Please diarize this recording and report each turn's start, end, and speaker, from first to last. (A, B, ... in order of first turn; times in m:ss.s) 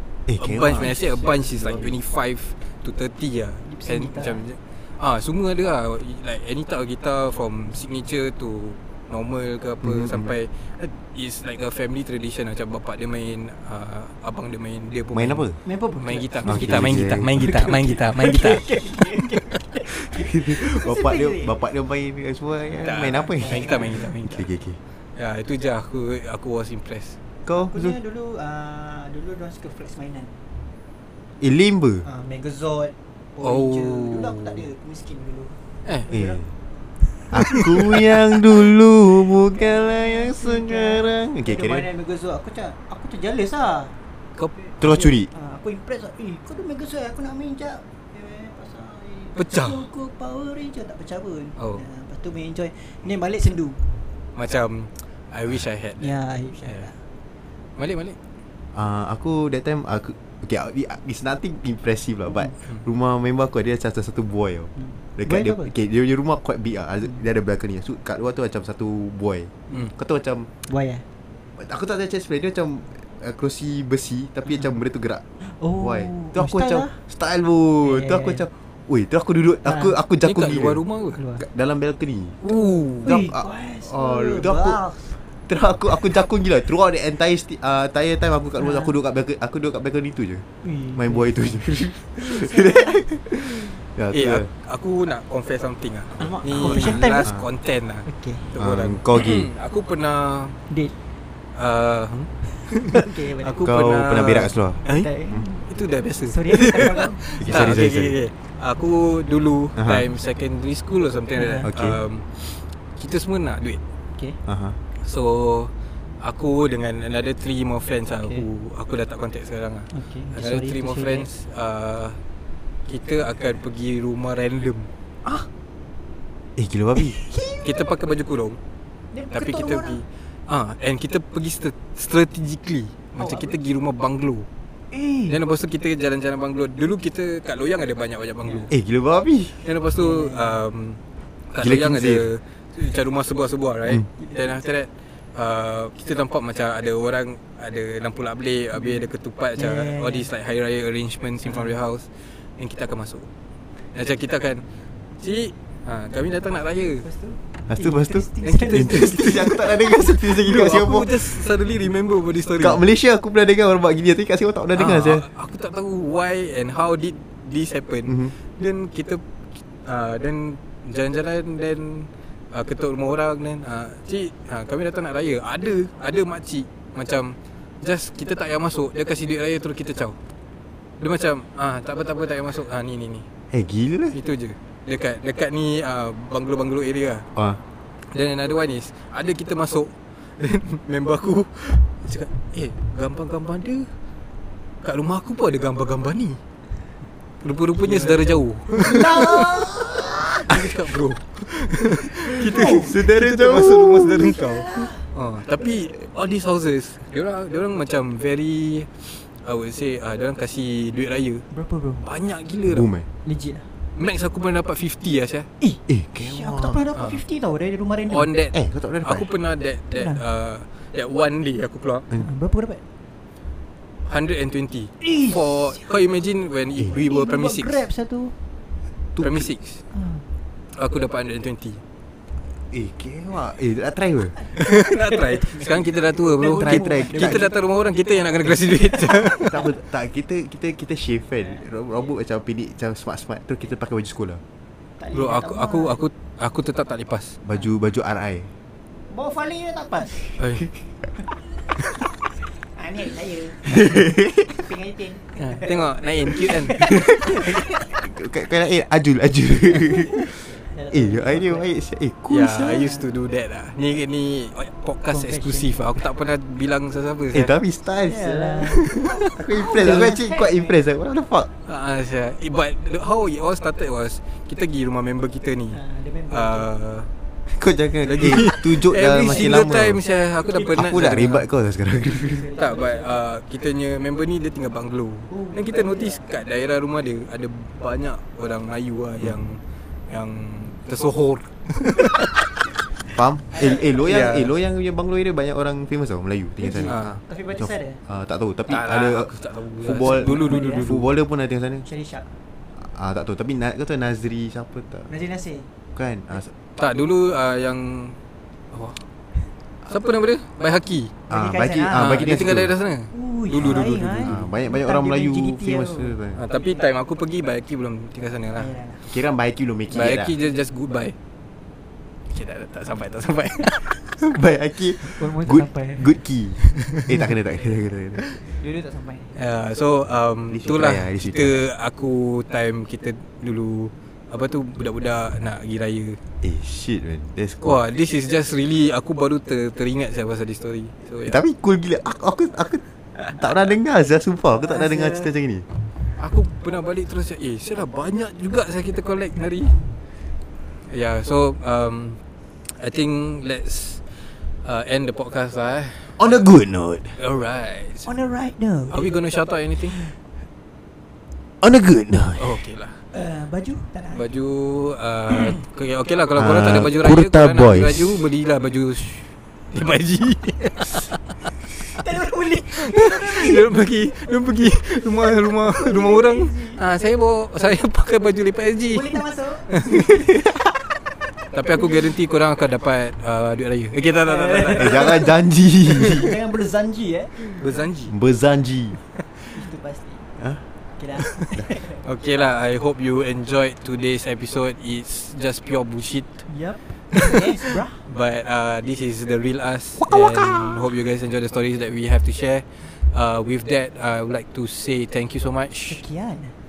0:00.3-0:02.0 A
0:00.4-0:15.4 B
0:00.8-0:01.3 C
0:03.6-0:04.4 C
0:09.8-0:10.3 A
0:15.1-0:15.6 A
0:15.6-0:21.6 C
0:16.0-0:19.6 B
0:16.4-0:18.0 A
0:19.9-0:24.8 A
0:22.6-0:24.1 C
0:22.8-0:24.5 B
0:25.2-0:27.2 B
0:27.4-0:28.0 A
0:27.5-0:30.4 C
0:31.4-0:32.0 A
0:32.0-0:36.4 C
0:33.4-0:34.6 B
0:35.8-0:36.1 B
0:36.1-0:36.5 A
0:37.3-0:41.8 A
0:37.4-0:37.7 B
0:39.5-0:43.9 C
0:44.6-0:53.8 C
0:44.8-0:45.3 A
0:49.4-0:49.8 B
0:51.6-0:51.8 B
0:54.3-0:56.9 B
0:56.0-0:57.0 C
0:57.8-0:58.2 B
0:58.7-1:10.5 A
1:04.8-1:05.7 C
1:10.6-1:11.0 C
1:11.6-1:15.2 A
1:15.4-1:17.0 C
1:15.8-1:20.8 A
1:17.8-1:18.4 C
1:19.6-1:20.0 C
1:20.2-1:21.2 B
1:21.2-1:21.4 C
1:21.4-1:22.4 A
1:22.4-1:23.1 B
1:23.0-1:25.2 C
1:23.0-1:24.8 A
1:25.5-1:34.5 A
1:28.6-1:29.0 C
1:30.6-1:31.6 C
1:32.2-1:33.0 C
1:34.1-1:40.6 B
1:36.2-1:37.3 C
1:36.5-1:37.5 A
1:38.0-1:38.6 C
1:38.6-1:39.5 A
1:41.5-1:45.1 B
1:42.9-1:43.7 C
1:43.6-1:45.5 A
1:44.8-1:45.6 C
1:45.7-1:53.8 B
1:46.3-1:47.2 C
1:47.4-1:48.2 A
1:49.8-1:50.1 A
1:51.4-1:51.7 C
1:51.6-1:52.0 A
1:54.4-1:54.8 A
1:55.0-1:55.7 B
1:56.2-2:02.2 B
1:59.9-2:01.3 C
2:02.8-2:04.9 B
2:06.6-2:07.2 A
2:07.0-2:07.7 C
2:07.6-2:08.6 B
2:09.1-2:10.0 C
2:09.3-2:14.5 B
2:13.2-2:13.5 C
2:14.9-2:15.4 C
2:15.3-2:18.7 B
2:18.4-2:18.7 C
2:18.7-2:19.6 A
2:19.6-2:21.0 B
2:20.0-2:20.6 C
2:21.5-2:33.3 B
2:21.6-2:22.3 A
2:24.2-2:24.5 C
2:28.7-2:30.3 C
2:31.4-2:31.8 C
2:33.9-2:34.6 B
2:35.2-2:37.0 B
2:37.0-2:39.4 C
2:37.7-2:41.4 A
2:38.4-2:42.8 B
2:42.6-2:45.2 A
2:44.7-2:49.2 B
2:48.1-2:48.3 A
2:49.8-3:00.2 B
3:01.0-3:03.2 B
3:03.5-3:04.2 A
3:04.1-3:07.2 B
3:07.3-3:07.6 A
3:08.1-3:13.9 B
3:14.8-3:16.4 B
3:17.4-3:19.7 B
3:17.8-3:20.5 C
3:19.2-3:19.5 A
3:20.4-3:31.4 B
3:22.3-3:24.4 A
3:22.4-3:23.0 C
3:24.3-3:25.0 C
3:31.5-3:32.1 C
3:32.0-3:32.9 B
3:32.7-3:33.0 A
3:33.2-3:33.7 C
3:34.0-3:35.5 B
3:35.6-3:38.3 C
3:35.9-3:36.8 A
3:36.9-3:37.2 B
3:38.1-3:42.1 B
3:38.5-3:39.3 A
3:39.9-3:40.2 C
3:42.1-3:42.8 C
3:44.0-3:47.8 B
3:45.0-3:45.9 C
3:46.9-3:48.3 C
3:49.2-3:49.5 A
3:49.2-3:49.8 B
3:49.9-3:50.3 C
3:50.7-3:51.8 B
3:52.7-3:54.4 A
3:54.4-3:57.5 C
3:54.6-3:59.6 B
3:56.4-3:57.5 A
3:58.9-3:59.3 C
3:59.5-4:04.4 A
4:01.4-4:01.7 C
4:05.0-4:06.0 C
4:05.1-4:07.4 B
4:07.4-4:08.5 A
4:09.1-4:10.4 C
4:10.4-4:10.7 B
4:12.3-4:18.1 C
4:13.7-4:14.5 A
4:15.4-4:16.9 B
4:16.8-4:23.0 A
4:19.8-4:21.7 C
4:22.3-4:27.5 B
4:22.7-4:23.0 C
4:25.1-4:25.8 C
4:27.3-4:31.5 A
4:28.0-4:29.0 C
4:29.5-4:30.8 C
4:29.7-4:30.1 B
4:31.6-4:35.8 B
4:35.7-4:36.7 C
4:36.3-4:37.1 B
4:37.5-4:40.0 A
4:38.0-4:41.4 B
4:39.2-4:39.6 C
4:40.5-4:41.4 C
4:40.7-4:42.5 A
4:42.0-4:43.2 C
4:42.6-4:52.5 B
4:45.3-4:46.3 C
4:53.1-5:01.8 A
4:53.5-4:54.3 C
4:54.0-4:54.5 B
4:56.6-4:58.0 C
4:56.8-4:57.2 B
4:58.7-5:01.1 B
5:00.0-5:00.9 C
5:01.8-5:02.3 C
5:02.8-5:05.1 A
5:05.1-5:05.7 C
5:05.9-5:06.5 A
5:06.8-5:08.2 B
5:08.7-5:09.0 B
5:09.8-5:11.1 B
5:11.3-5:12.7 A
5:11.3-5:12.3 C
5:12.0-5:14.5 B
5:13.1-5:16.2 C
5:13.6-5:16.4 A
5:16.3-5:18.7 B
5:18.5-5:19.1 C
5:19.1-5:20.3 A
5:19.9-5:21.2 B
5:22.3-5:24.0 B
5:24.2-5:28.2 A
5:25.0-5:26.2 C
5:26.7-5:27.1 B
5:28.5-5:29.4 C
5:29.3-5:36.2 B
5:30.5-5:31.6 A
5:36.4-5:37.8 A
5:37.6-5:41.4 B
5:41.2-5:45.6 A
5:44.7-5:45.3 C
5:46.2-5:49.7 B
5:50.9-5:54.1 B
5:54.6-5:56.4 B
5:56.2-5:57.2 A
5:57.2-5:58.1 B
5:58.0-5:59.2 C
5:58.9-6:00.0 B
6:01.6-6:02.6 A
6:02.4-6:03.0 B
6:03.1-6:04.2 C
6:04.1-6:12.0 B
6:06.3-6:08.2 A
6:11.9-6:13.8 C
6:12.7-6:20.0 B
6:15.7-6:16.8 C
6:18.9-6:20.3 C
6:20.1-6:20.5 A
6:21.5-6:25.2 B
6:24.2-6:25.3 C
6:24.8-6:26.3 A
6:25.9-6:27.6 C
6:27.5-6:28.1 B
6:28.1-6:29.0 A
6:29.5-6:30.3 C
6:30.9-6:32.0 C
6:31.2-6:36.4 B
6:36.5-6:38.0 C
6:37.1-6:46.0 B
6:40.0-6:40.9 A
6:45.9-6:46.5 C